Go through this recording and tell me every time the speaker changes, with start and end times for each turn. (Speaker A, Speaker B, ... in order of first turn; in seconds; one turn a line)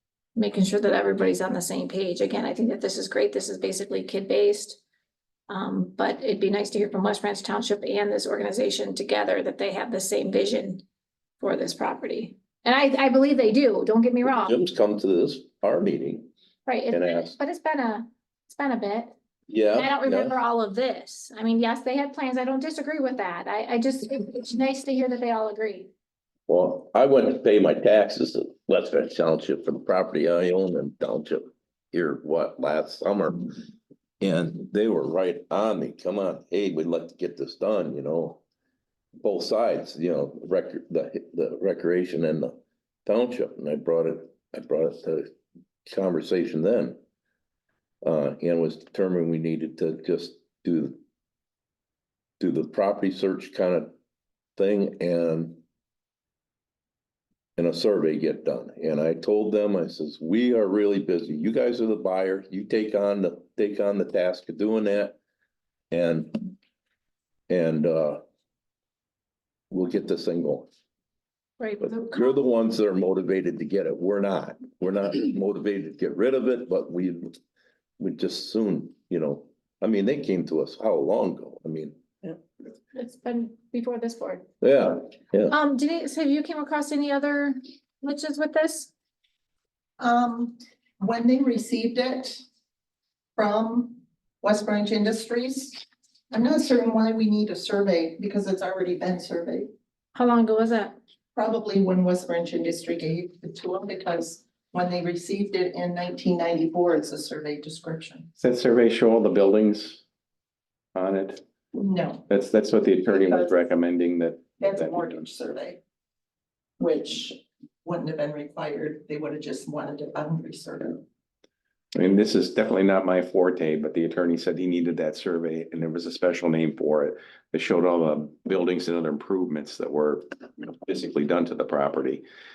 Speaker A: 0.3-4.8
Speaker A: 5.5-10.8
Speaker A: 11.4-14.6
Speaker B: 14.2-16.3
Speaker A: 16.6-19.1
Speaker B: 16.9-17.4
Speaker B: 19.5-20.4
Speaker A: 19.7-25.9
Speaker B: 26.5-33.5
Speaker B: 34.2-38.4
Speaker B: 39.2-45.3
Speaker B: 45.8-47.0
Speaker B: 48.0-51.0
Speaker B: 52.4-53.9
Speaker B: 54.5-55.6
Speaker B: 57.6-65.2
Speaker B: 65.9-66.4
Speaker B: 67.5-68.2
Speaker B: 69.7-70.7
Speaker A: 71.6-72.4
Speaker B: 71.8-77.3
Speaker B: 78.0-82.4
Speaker A: 82.9-84.5
Speaker B: 84.6-85.5
Speaker A: 85.5-88.9
Speaker C: 90.0-92.4
Speaker C: 93.3-99.7
Speaker A: 100.1-101.0
Speaker C: 101.3-108.3
Speaker D: 108.4-110.0
Speaker D: 110.9-111.4
Speaker C: 111.7-112.3
Speaker D: 112.3-115.2
Speaker C: 113.1-113.6
Speaker C: 114.6-115.8
Speaker C: 116.8-121.0
Speaker D: 121.9-132.2